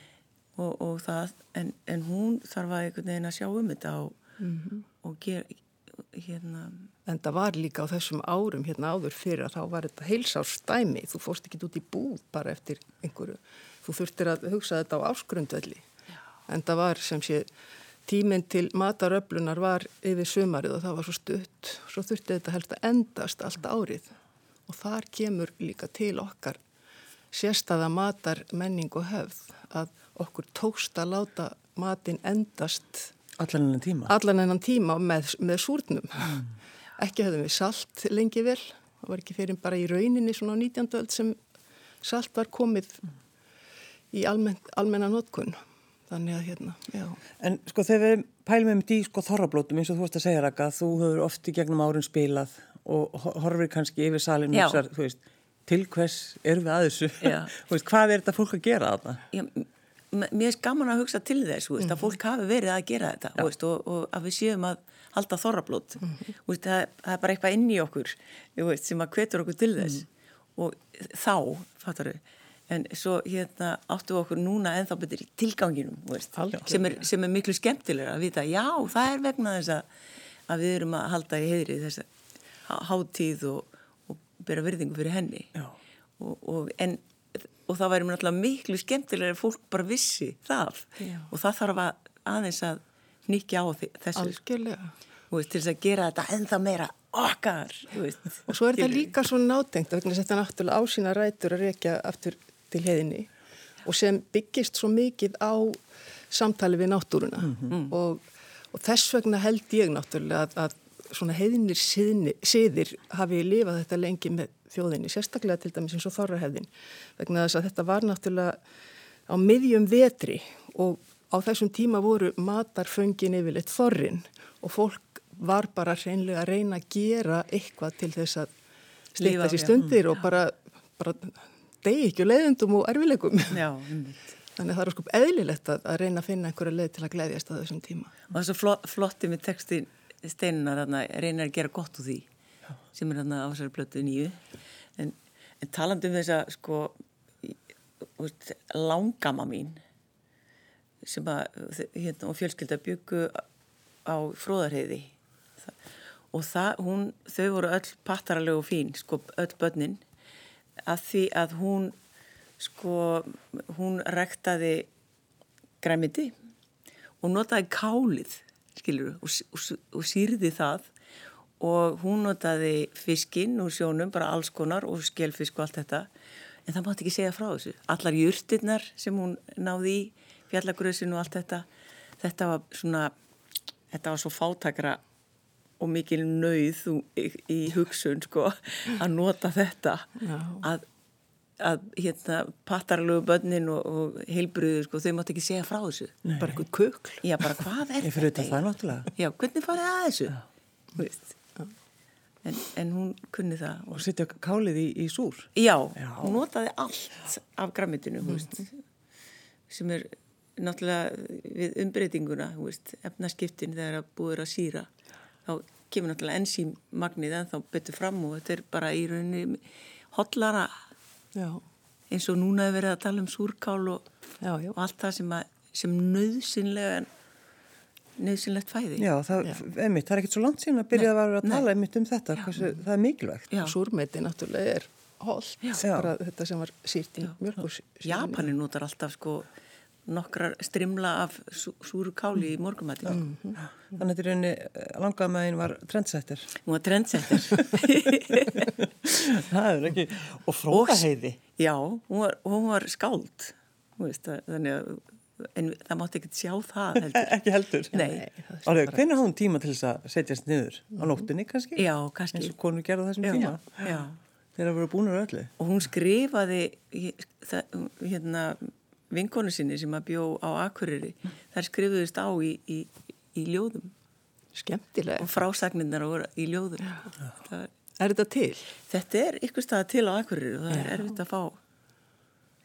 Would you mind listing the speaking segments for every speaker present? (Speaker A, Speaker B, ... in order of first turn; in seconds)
Speaker A: 0.6-4.2, 5.0-6.9, 54.5-54.8, 57.2-57.5, 59.3-79.8, 80.5-82.1, 82.7-85.5, 86.2-94.4, 95.3-99.1, 129.2-129.8, 133.5-134.2, 138.3-142.2, 142.9-144.4, 145.0-147.6, 148.2-149.8, 151.0-153.4, 154.0-155.1, 156.3-160.0, 160.8-161.9, 162.6-164.9, 165.8-166.3, 167.2-170.9, 171.6-176.1, 176.7-181.6, 182.2-183.1, 183.9-185.0, 185.8-190.8, 191.6-196.2, 197.2-200.4, 200.9-201.3, 202.4-204.0, 205.6-208.7, 209.7-214.9, 215.4-220.8, 222.1-224.1, 224.7-227.1, 228.2-229.0, 231.0-231.7, 238.0-239.5, 240.1-243.2, 246.7-248.7, 250.7-257.3, 257.9-258.2, 261.8-262.5, 263.2-264.1, 265.6-273.9, 275.2-277.7, 278.9-281.6
Speaker B: 4.4-4.8, 7.1-15.8, 16.5-17.5, 18.1-24.1, 24.7-26.6, 27.3-33.1, 34.1-36.5, 37.0-41.4, 42.0-43.0, 44.1-47.2, 61.8-62.1, 76.3-77.0, 91.0-91.3, 94.1-94.9, 98.5-103.3, 103.8-105.8, 106.3-118.6, 119.3-128.5, 129.1-133.6, 134.6-138.1, 190.2-190.6, 196.4-197.2, 221.3-221.6, 224.4-224.8, 233.6-238.5, 243.1-243.6, 257.9-259.0, 274.5-275.3, 278.0-278.6, 280.7-281.0
Speaker C: 33.4-34.1, 47.4-59.2, 196.2-196.6, 198.0-199.1, 203.9-206.3, 229.0-233.5, 235.8-236.1, 243.9-246.5, 247.5-247.8, 248.3-251.4, 257.0-258.0, 258.6-263.9, 264.6-265.5